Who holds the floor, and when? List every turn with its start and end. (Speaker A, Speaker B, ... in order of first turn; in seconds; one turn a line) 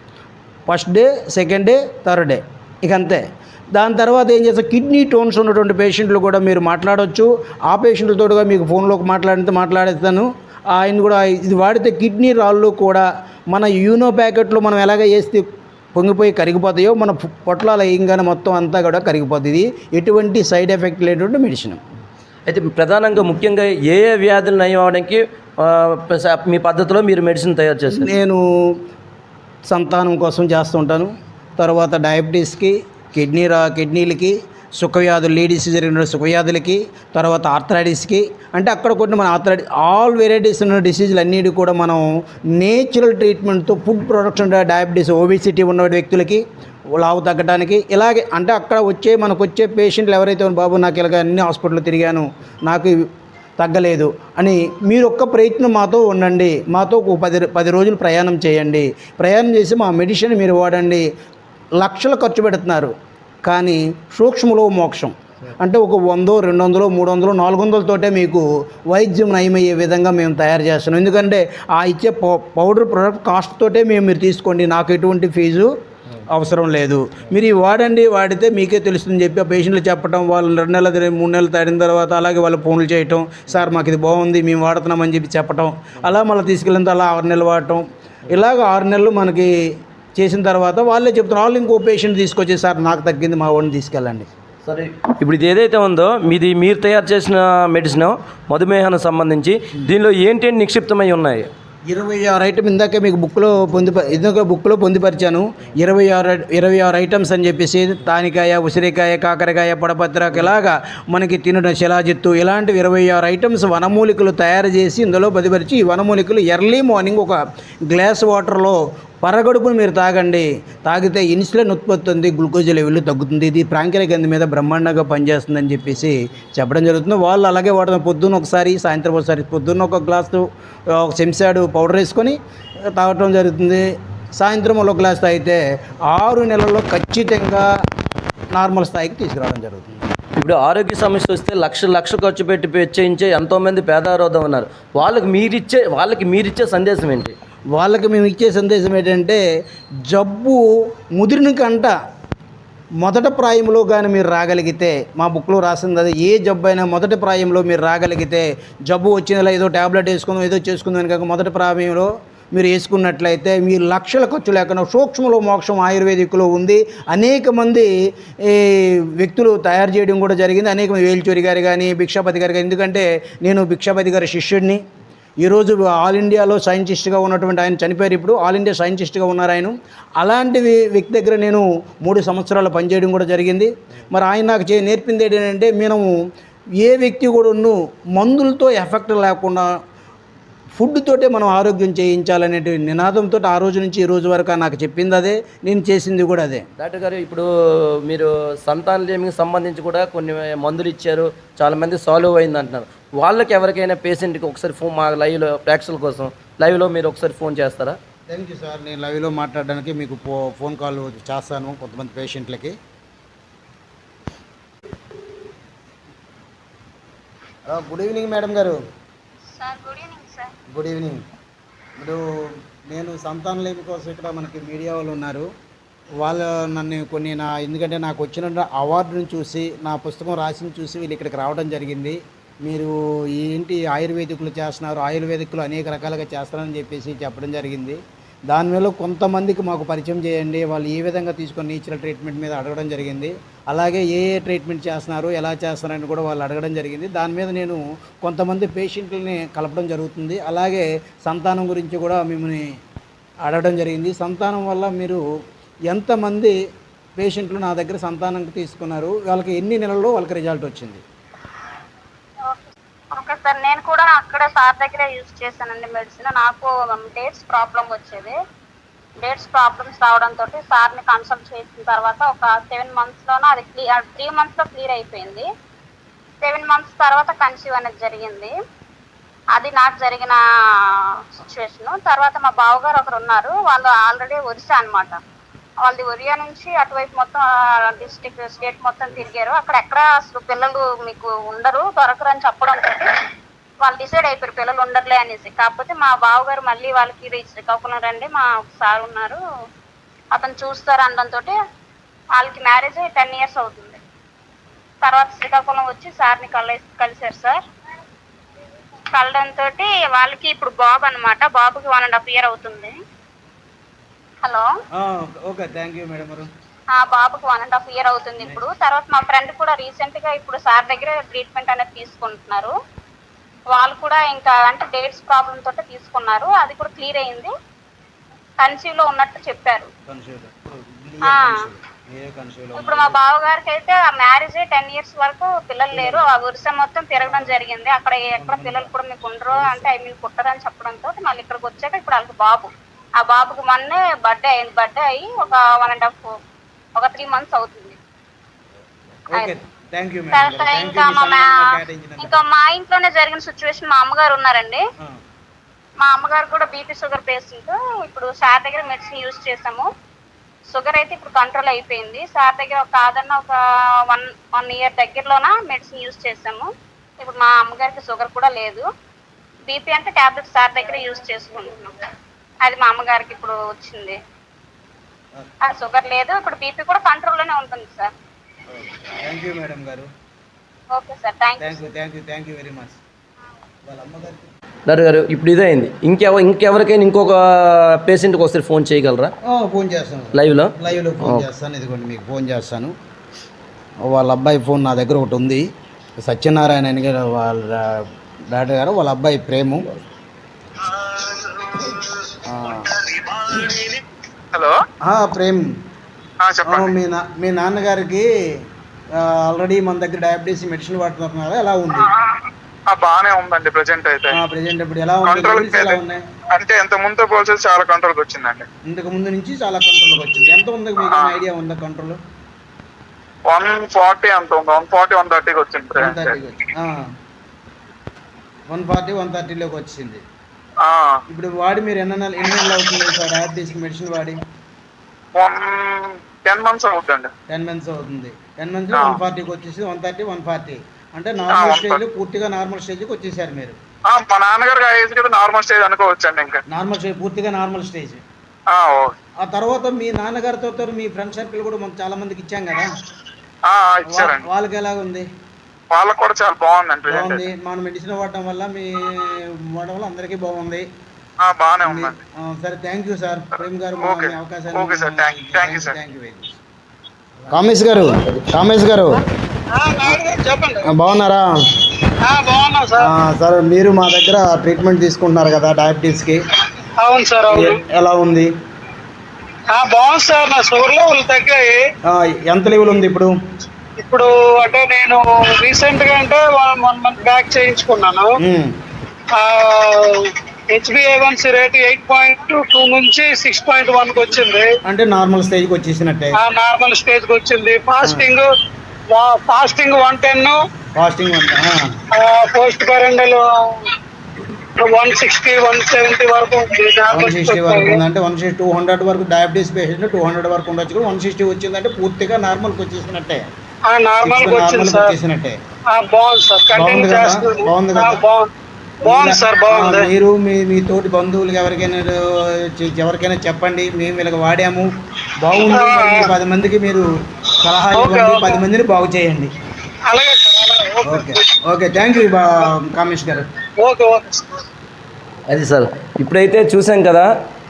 Speaker A: 0.7-21.8
Speaker B: 22.5-28.1
Speaker A: 27.9-28.4
Speaker A: 29.7-42.0
Speaker A: 42.6-46.4
Speaker A: 47.0-53.0
Speaker A: 53.6-61.0
Speaker A: 61.8-62.9
Speaker A: 63.4-75.7
Speaker A: 76.3-89.5
Speaker A: 90.2-94.2
Speaker B: 94.6-101.5
Speaker A: 101.9-117.4
Speaker A: 117.9-130.4
Speaker A: 130.9-132.4
Speaker A: 132.9-133.8
Speaker A: 134.4-137.7
Speaker A: 138.5-140.0
Speaker B: 140.4-147.3
Speaker A: 147.7-149.4
Speaker A: 150.1-150.6
Speaker A: 151.1-151.9
Speaker A: 153.0-167.9
Speaker A: 168.4-174.8
Speaker A: 175.4-186.1
Speaker A: 186.8-189.7
Speaker A: 190.8-196.6
Speaker B: 196.8-197.4
Speaker B: 198.1-207.9
Speaker A: 208.3-212.7
Speaker A: 217.7-218.8
Speaker C: 219.5-220.5
Speaker A: 220.7-221.2
Speaker A: 222.0-222.2
Speaker A: 222.9-225.5
Speaker A: 226.2-238.0
Speaker A: 238.5-252.6
Speaker A: 253.4-255.2
Speaker A: 255.9-256.5
Speaker A: 257.2-261.0
Speaker C: 262.4-268.4
Speaker C: 269.2-275.5
Speaker C: 276.4-278.5
Speaker C: 279.5-285.2
Speaker C: 285.8-293.1
Speaker C: 293.8-299.4
Speaker C: 300.3-301.5
Speaker C: 302.3-304.0
Speaker C: 305.0-307.6
Speaker C: 309.1-313.0
Speaker C: 314.4-314.7
Speaker A: 315.0-316.5
Speaker C: 316.9-322.7
Speaker C: 323.7-327.5
Speaker C: 328.6-329.9
Speaker A: 330.1-333.2
Speaker C: 331.3-331.6
Speaker C: 332.8-346.4
Speaker A: 335.9-336.3
Speaker A: 337.2-337.6
Speaker A: 338.4-338.9
Speaker A: 339.5-339.9
Speaker C: 346.9-348.0
Speaker A: 349.3-352.4
Speaker C: 350.3-354.8
Speaker C: 356.0-359.9
Speaker C: 360.7-366.7
Speaker C: 367.2-368.9
Speaker C: 369.7-371.9
Speaker C: 372.6-374.2
Speaker C: 375.6-378.1
Speaker A: 378.7-380.1
Speaker C: 380.9-381.9
Speaker A: 381.6-383.0
Speaker A: 383.8-384.5
Speaker B: 384.9-389.3
Speaker A: 389.4-392.9
Speaker B: 390.3-391.5
Speaker A: 394.1-395.6
Speaker A: 396.2-399.9
Speaker D: 401.1-401.9
Speaker A: 402.4-403.1
Speaker D: 403.1-403.9
Speaker D: 404.5-404.8
Speaker A: 405.0-405.7
Speaker D: 406.4-406.9
Speaker A: 406.6-408.3
Speaker A: 409.1-412.1
Speaker D: 412.9-414.4
Speaker A: 414.3-416.2
Speaker D: 415.2-416.0
Speaker D: 416.5-418.6
Speaker A: 418.9-422.2
Speaker D: 421.0-421.4
Speaker D: 423.5-426.4
Speaker A: 426.0-427.0
Speaker A: 428.7-430.2
Speaker D: 430.8-431.2
Speaker A: 431.3-434.4
Speaker D: 435.3-437.3
Speaker A: 437.5-443.8
Speaker D: 438.9-439.2
Speaker D: 441.5-442.0
Speaker D: 444.1-446.6
Speaker A: 446.7-448.2
Speaker D: 448.7-449.1
Speaker A: 449.4-452.9
Speaker D: 453.6-454.4
Speaker A: 454.1-455.3
Speaker D: 455.9-457.4
Speaker A: 457.1-460.9
Speaker D: 461.4-462.2
Speaker A: 461.8-466.5
Speaker D: 464.0-465.9
Speaker A: 467.5-469.2
Speaker E: 469.7-470.9
Speaker A: 470.8-471.5
Speaker E: 472.2-473.1
Speaker A: 473.0-476.4
Speaker E: 477.0-477.8
Speaker A: 477.5-478.5
Speaker E: 479.7-481.8
Speaker A: 482.1-483.3
Speaker E: 484.0-488.4
Speaker A: 488.4-488.7
Speaker E: 489.3-494.7
Speaker A: 494.9-496.3
Speaker E: 496.4-498.5
Speaker E: 499.1-500.6
Speaker A: 500.9-501.8
Speaker E: 502.1-503.9
Speaker E: 504.8-508.0
Speaker A: 507.1-513.4
Speaker E: 513.9-515.1
Speaker A: 514.2-515.5
Speaker E: 515.9-518.5
Speaker A: 516.7-518.2
Speaker E: 519.0-520.1
Speaker A: 519.0-524.9
Speaker A: 525.4-529.5
Speaker E: 525.5-526.3
Speaker E: 527.9-528.6
Speaker E: 530.1-531.5
Speaker A: 531.1-533.4
Speaker E: 533.8-534.6
Speaker B: 535.5-537.3